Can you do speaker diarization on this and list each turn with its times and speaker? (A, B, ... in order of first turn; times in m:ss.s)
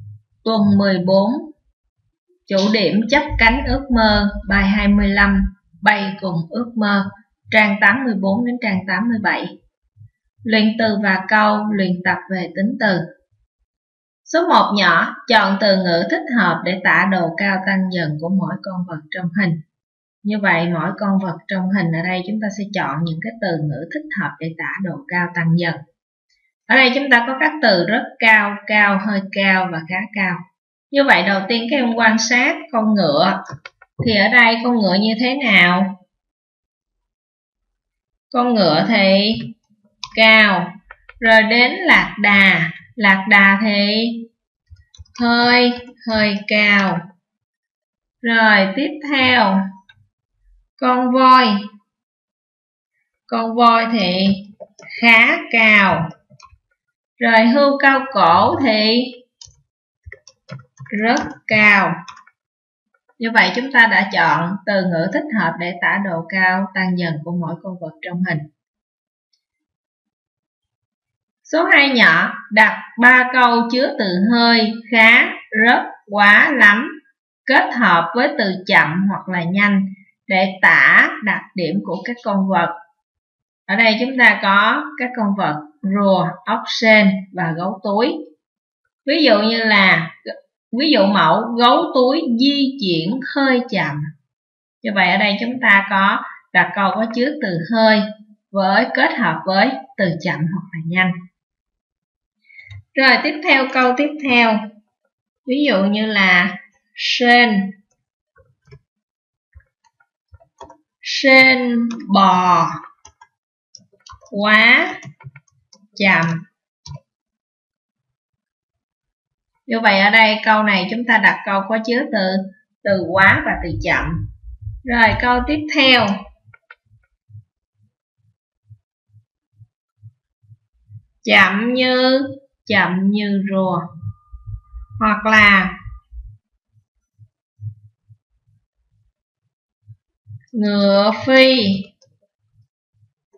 0:00.4-0:01.5 A
0:02.5-0:09.5 A
0:10.4-0:13.0 A
0:14.2-0:19.6 A
0:20.2-0:25.8 A
0:26.7-0:33.4 A
0:34.0-0:36.0 A
0:38.3-0:39.5 A
0:40.1-0:44.3 A
0:45.1-0:47.0 A
0:48.2-0:49.6 A
0:50.8-0:51.6 A
0:53.3-0:56.1 A
0:57.2-0:59.2 A
1:00.9-1:02.0 A
1:03.2-1:08.4 A
1:11.4-1:22.7 A
1:23.7-1:28.2 A
1:29.0-1:34.1 A
1:34.8-1:41.2 A
1:42.9-1:44.6 A
1:45.5-1:47.7 A
1:51.0-1:52.8 A
1:54.3-1:54.9 A
1:55.9-1:56.4 A
1:59.7-2:04.2 A
2:04.8-2:06.2 A
2:11.2-2:13.9 A
2:15.0-2:15.8 A
2:20.5-2:21.9 A